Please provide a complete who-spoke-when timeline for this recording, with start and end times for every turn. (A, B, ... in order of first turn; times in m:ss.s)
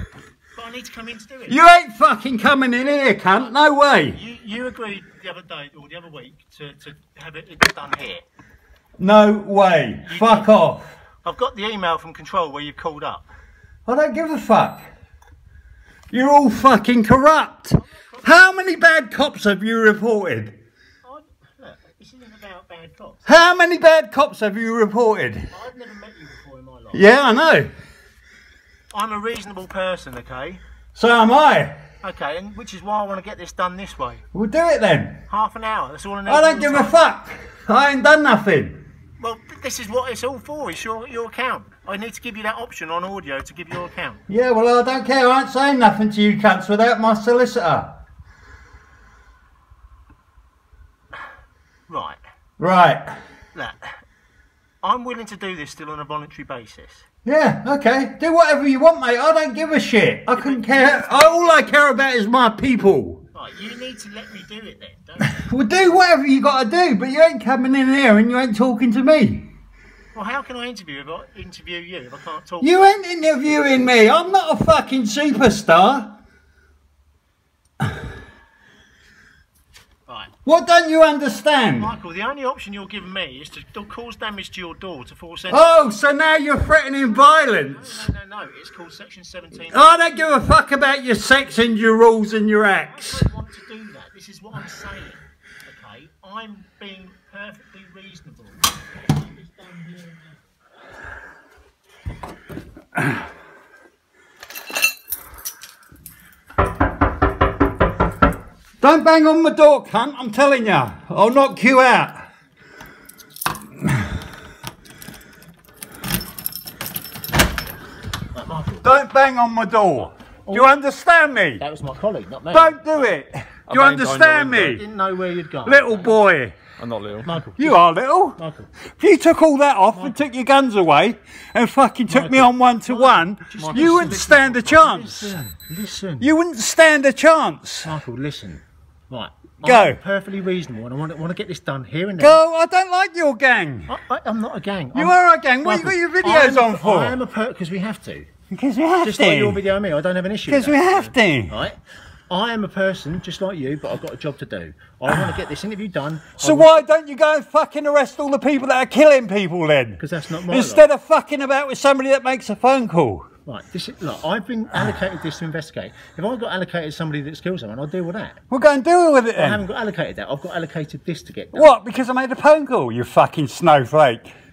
0:00.5-0:01.6 A
0:01.5-0:04.2 B
0:04.1-0:08.2 A
0:09.0-0:10.9 B
0:10.0-0:10.5 A
0:11.2-0:13.2 A
0:13.8-0:14.8 B
0:16.1-0:20.6 B
0:17.8-0:18.2 A
0:21.0-0:23.2 A
0:23.2-0:25.5 B
0:25.5-0:27.1 A
0:26.9-0:27.7 B
0:28.9-0:30.6 A
0:30.9-0:31.8 B
0:32.0-0:34.2 A
0:34.3-0:35.2 B
0:35.3-0:37.0 A
0:36.3-0:38.8 B
0:39.2-0:44.2 A
0:44.3-0:47.9 B
0:51.9-0:52.2 A
0:52.6-0:53.1 B
0:53.5-0:54.0 A
0:54.8-0:57.0 A
0:57.2-1:03.2 B
1:00.3-1:01.7 A
1:03.3-1:05.4 A
1:05.2-1:09.5 B
1:10.1-1:12.8 A
1:12.6-1:16.1 B
1:20.1-1:20.3 A
1:20.4-1:21.9 B
1:21.8-1:25.8 A
1:25.5-1:28.1 B
1:26.7-1:30.5 A
1:29.7-1:33.3 B
1:32.8-1:40.3 A
1:48.8-1:52.2 B
1:58.3-1:59.0 A
1:58.8-2:01.6 B
2:00.5-2:00.7 A
2:01.6-2:03.2 A
2:02.5-2:04.8 B
2:03.7-2:04.8 C
2:04.5-2:06.1 A
2:05.6-2:06.6 B
2:06.8-2:07.3 C
2:07.2-2:07.8 A
2:07.6-2:08.4 B
2:08.4-2:08.7 A
2:08.9-2:15.4 B
2:12.1-2:16.3 A
2:13.6-2:14.0 C
2:16.2-2:17.9 B
2:17.8-2:22.4 A
2:19.6-2:20.0 B
2:22.2-2:23.9 B
2:23.9-2:28.3 A
2:24.9-2:27.2 B
2:28.5-2:29.6 B
2:29.0-2:30.9 A
2:30.5-2:31.6 B
2:31.5-2:31.8 A
2:32.3-2:36.9 A
2:36.4-2:43.3 B
2:40.0-2:40.8 A
2:43.4-2:48.4 A
2:48.5-2:49.6 B
2:49.4-2:51.8 A
2:51.5-2:54.3 B